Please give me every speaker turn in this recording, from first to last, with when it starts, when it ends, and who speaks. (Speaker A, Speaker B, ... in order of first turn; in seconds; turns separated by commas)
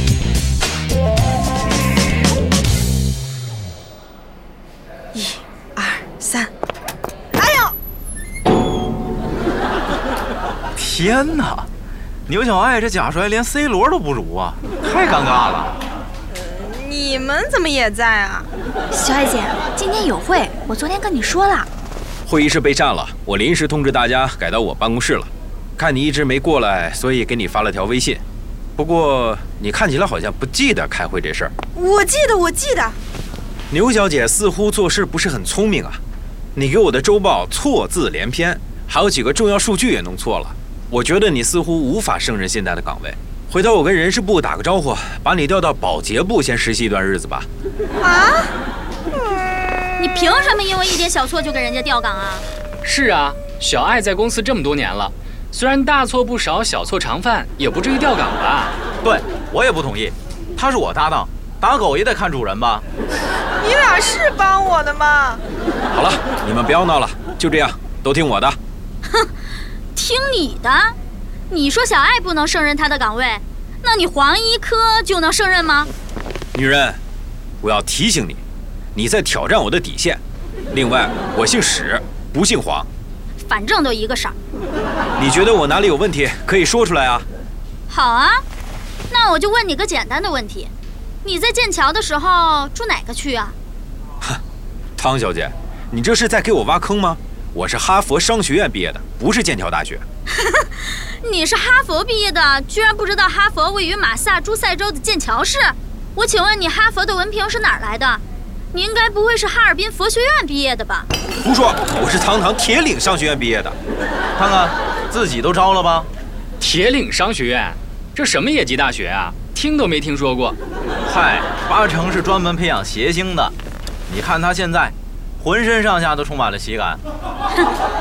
Speaker A: 5.1-6.5, Speaker A: 7.3-7.7, Speaker B: 10.8-11.7, Speaker B: 12.3-15.8, Speaker A: 16.3-18.5, Speaker C: 18.9-21.7, Speaker D: 22.2-28.2, Speaker D: 28.8-31.5, Speaker A: 31.7-33.0, Speaker D: 33.7-36.0, Speaker D: 36.5-47.5, Speaker A: 48.0-48.5, Speaker E: 50.0-52.4, Speaker F: 52.8-58.8, Speaker B: 59.0-62.9, Speaker A: 63.6-65.4, Speaker D: 65.9-68.6, Speaker E: 69.9-71.0, Speaker E: 71.5-75.9, Speaker D: 76.5-77.0, Speaker D: 77.6-78.4, Speaker D: 78.9-80.2, Speaker D: 80.7-82.9, Speaker E: 83.4-84.3, Speaker D: 85.2-87.2, Speaker E: 87.9-88.4, Speaker E: 89.1-90.7, Speaker E: 91.2-93.5, Speaker D: 95.0-100.0, Speaker E: 100.3-111.1, Speaker D: 111.4-113.8, Speaker B: 114.3-116.1, Speaker F: 116.6-120.6, Speaker B: 121.0-123.5, Speaker B: 124.1-127.0